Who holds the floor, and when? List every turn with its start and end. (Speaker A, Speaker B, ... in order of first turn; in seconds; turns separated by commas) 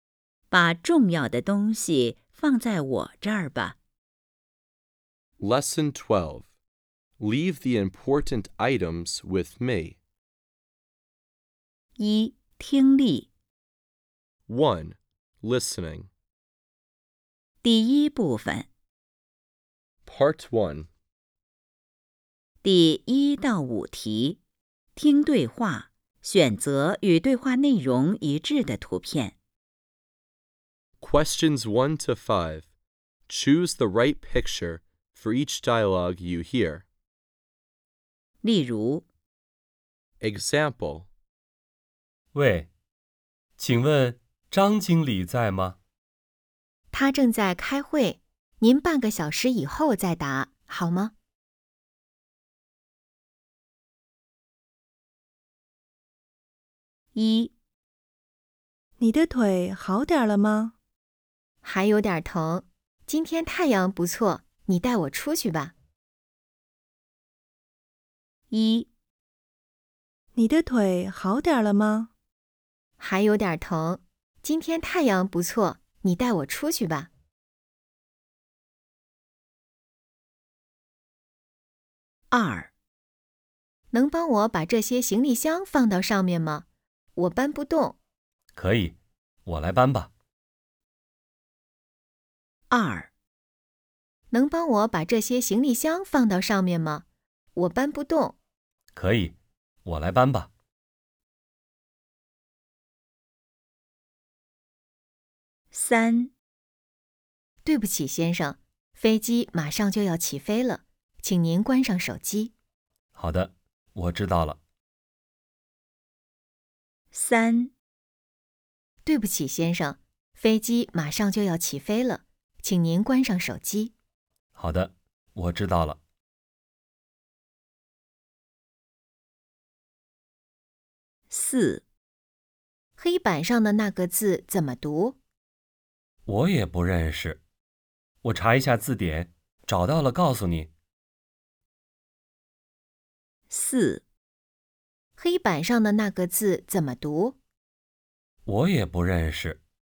Speaker A: 0.5-3.8, Speaker B: 5.4-6.5, Speaker B: 7.2-10.0, Speaker A: 12.0-13.3, Speaker B: 14.5-16.1, Speaker A: 17.6-18.7, Speaker B: 20.1-20.9, Speaker A: 22.6-24.4, Speaker A: 24.9-29.4, Speaker B: 31.0-32.7, Speaker B: 33.3-36.9, Speaker A: 38.4-39.0, Speaker B: 40.2-41.1, Speaker C: 42.3-42.7, Speaker C: 43.6-45.8, Speaker D: 46.9-51.1, Speaker A: 57.1-57.5, Speaker E: 59.0-60.8, Speaker D: 61.6-65.7, Speaker A: 68.5-68.9, Speaker E: 70.3-72.1, Speaker D: 73.0-77.1, Speaker A: 82.3-82.7, Speaker D: 83.9-86.6, Speaker D: 87.2-88.0, Speaker C: 88.5-90.1, Speaker A: 92.7-93.1, Speaker D: 94.3-97.0, Speaker D: 97.5-98.3, Speaker C: 98.9-100.5, Speaker A: 105.7-106.3, Speaker D: 107.6-112.5, Speaker C: 113.1-114.6, Speaker A: 117.1-117.7, Speaker D: 119.0-123.9, Speaker C: 124.5-126.0, Speaker A: 131.3-131.8, Speaker D: 133.0-135.2, Speaker C: 136.3-137.4, Speaker C: 138.2-140.7, Speaker A: 143.5-144.0, Speaker D: 145.2-147.3, Speaker C: 148.4-149.6